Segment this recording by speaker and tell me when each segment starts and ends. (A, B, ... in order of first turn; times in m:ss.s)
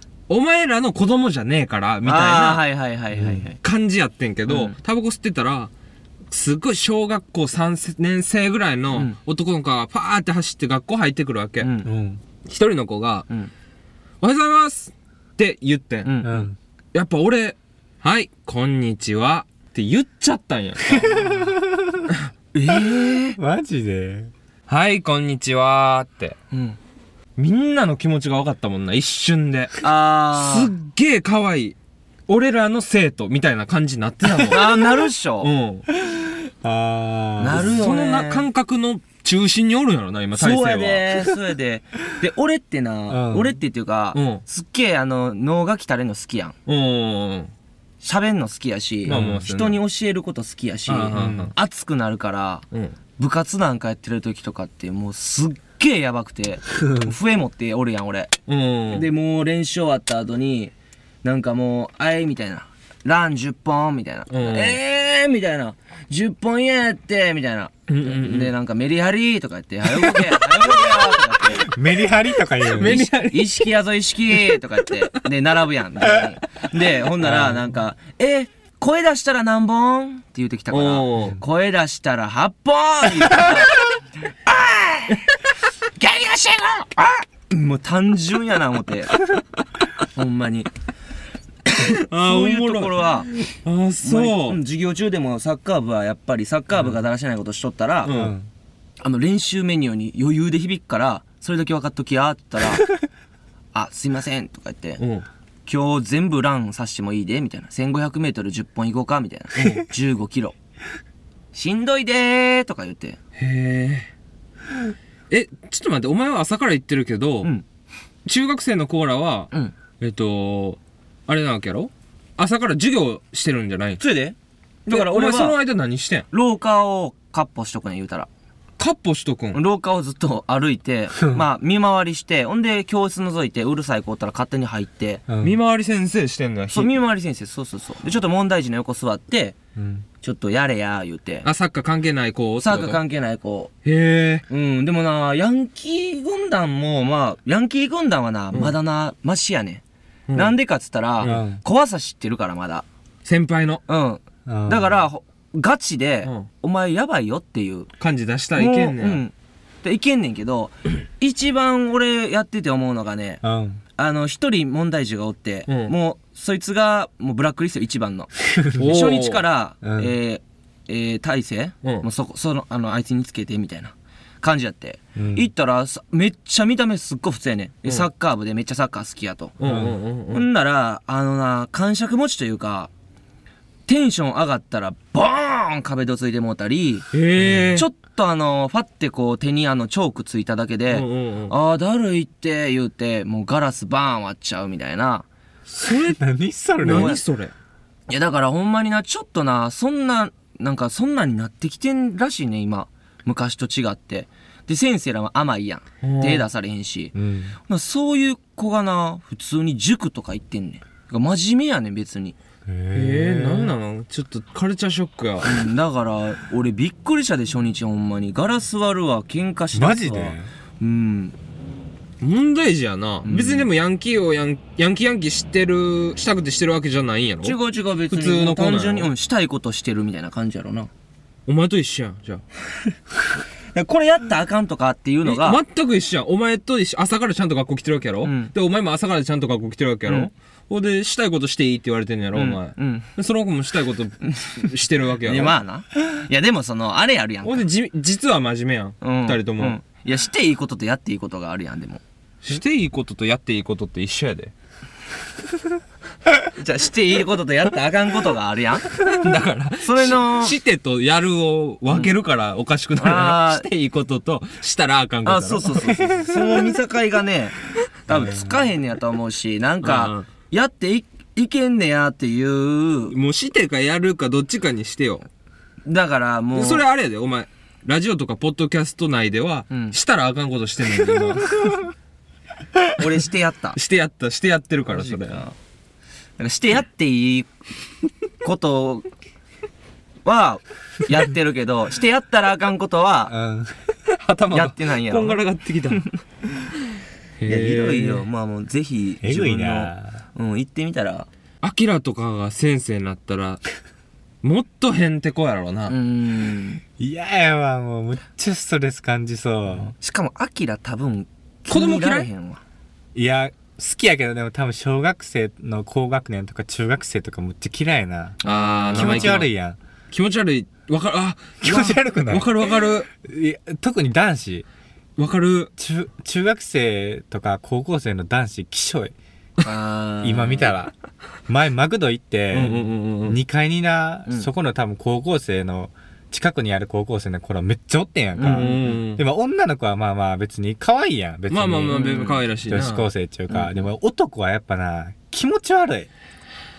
0:00.3-0:02.6 A
0:02.0-0:03.6 B
0:03.1-0:03.4 C
0:03.6-0:05.7 A
0:04.4-0:04.8 B
0:06.3-0:11.7 A
0:08.9-0:09.2 B
0:11.6-0:11.9 B
0:11.8-0:12.2 C
0:12.4-0:13.2 A
0:14.2-0:16.1 A
0:16.0-0:16.5 B
0:16.2-0:16.6 C
0:16.9-0:21.5 A
0:21.0-0:22.0 C
0:22.5-0:23.4 B
0:22.7-0:24.3 C
0:24.7-0:26.4 A
0:26.5-0:26.8 B
0:27.4-0:29.8 A
0:29.8-0:30.7 B
0:30.3-0:31.8 A
0:32.3-0:35.8 A
0:34.4-0:35.5 B
0:35.9-0:37.8 C
0:37.4-0:38.4 B
0:37.5-0:41.3 A
0:40.3-0:46.6 B
0:43.1-0:43.6 C
0:44.1-0:44.4 A
0:46.6-0:47.5 A
0:48.0-0:52.6 B
0:49.0-0:49.8 A
0:49.1-0:49.4 C
0:50.9-0:51.5 A
0:51.1-0:51.5 C
0:53.2-0:58.4 B
0:58.5-0:59.0 A
0:58.9-1:00.7 B
1:01.2-1:11.7 B
1:04.3-1:04.8 A
1:07.9-1:08.5 A
1:09.9-1:10.3 A
1:11.5-1:13.0 C
1:12.6-1:13.7 A
1:12.8-1:23.8 B
1:14.3-1:14.9 A
1:17.2-1:17.6 C
1:20.7-1:21.4 A
1:24.4-1:25.3 B
1:26.0-1:29.1 B
1:30.1-1:30.7 B
1:31.8-1:34.6 A
1:32.2-1:33.3 B
1:34.0-1:38.1 B
1:38.0-1:38.3 A
1:38.1-1:38.5 C
1:39.0-1:42.8 B
1:43.7-1:45.0 B
1:45.0-1:45.2 A
1:45.6-1:50.5 B
1:49.6-1:49.8 A
1:51.5-1:53.2 B
1:53.4-1:54.1 A
1:55.3-1:57.5 A
1:58.2-2:04.0 A
2:04.0-2:04.4 B
2:04.9-2:06.2 A
2:04.9-2:05.6 B
2:06.3-2:08.3 B
2:08.8-2:09.6 A
2:09.5-2:15.2 B
2:15.3-2:15.6 C
2:15.4-2:16.9 A
2:16.7-2:19.6 B
2:19.8-2:20.0 C
2:20.2-2:21.5 B
2:21.4-2:23.0 A
2:22.6-2:23.7 B
2:23.8-2:24.4 A
2:24.5-2:32.8 B
2:30.3-2:30.5 A
2:31.2-2:31.6 C
2:33.2-2:33.8 A
2:33.9-2:37.9 B
2:34.4-2:35.0 C
2:38.0-2:39.2 A
2:38.5-2:43.4 B
2:43.4-2:43.8 C
2:44.0-2:59.7 B
2:48.6-2:48.9 C
2:48.8-2:49.4 A
2:49.8-2:50.1 C
2:55.2-2:55.5 C
2:59.6-3:00.4 A
2:59.6-3:00.0 C
3:00.3-3:02.9 B
3:03.8-3:07.1 B
3:07.1-3:07.8 A
3:07.4-3:07.8 C
3:07.7-3:15.3 B
3:10.9-3:11.5 A
3:15.7-3:16.2 A
3:16.0-3:17.2 C
3:16.8-3:17.5 A
3:16.8-3:17.2 B
3:18.1-3:32.4 B
3:26.0-3:26.4 A
3:27.1-3:27.5 C
3:32.7-3:33.7 C
3:32.9-3:35.6 A
3:35.4-3:41.4 B
3:39.7-3:40.5 C
3:42.2-3:47.6 A
3:43.2-3:43.7 B
3:47.4-3:50.9 B
3:48.1-3:49.1 A
3:51.5-3:52.4 A
3:53.7-3:55.6 B
3:55.2-4:05.5 A
3:58.2-3:58.5 B
4:02.3-4:03.1 B
4:04.3-4:04.7 B
4:05.2-4:07.7 B
4:07.4-4:09.8 A
4:09.0-4:12.0 B
4:12.4-4:14.5 A
4:16.6-4:19.0 B
4:19.0-4:25.8 A
4:19.8-4:20.6 B
4:21.9-4:22.1 B
4:23.0-4:23.6 B
4:25.2-4:33.2 B
4:26.0-4:26.3 C
4:28.1-4:28.6 C
4:29.8-4:30.2 A
4:33.1-4:35.3 A
4:35.8-4:36.8 B
4:36.5-4:41.8 A
4:39.7-4:40.0 B
4:42.9-4:43.8 B
4:43.7-4:45.4 A
4:44.9-4:45.5 B
4:46.4-4:47.5 B
4:48.4-4:49.1 B
4:50.2-4:53.3 B
4:53.3-4:53.8 C
4:54.1-4:56.1 A
4:54.5-4:55.4 B
4:57.4-4:58.2 A
4:57.4-5:01.3 B
4:59.2-5:00.1 C
5:01.6-5:03.6 A
5:04.4-5:05.9 A
5:05.9-5:06.8 B
5:07.0-5:09.9 C
5:10.0-5:12.6 B
5:11.7-5:12.3 A
5:13.1-5:18.4 C
5:18.4-5:19.4 B
5:18.4-5:19.5 A
5:19.0-5:19.8 C
5:20.1-5:23.1 A
5:21.6-5:24.6 C
5:25.2-5:25.7 A
5:25.8-5:29.1 C
5:29.6-5:30.7 B
5:30.2-5:30.9 C
5:31.5-5:42.1 C
5:32.5-5:33.4 A
5:38.4-5:38.9 B
5:38.4-5:39.2 A
5:41.5-5:43.1 A
5:41.9-5:42.5 B
5:42.6-5:46.1 C
5:43.5-5:43.8 B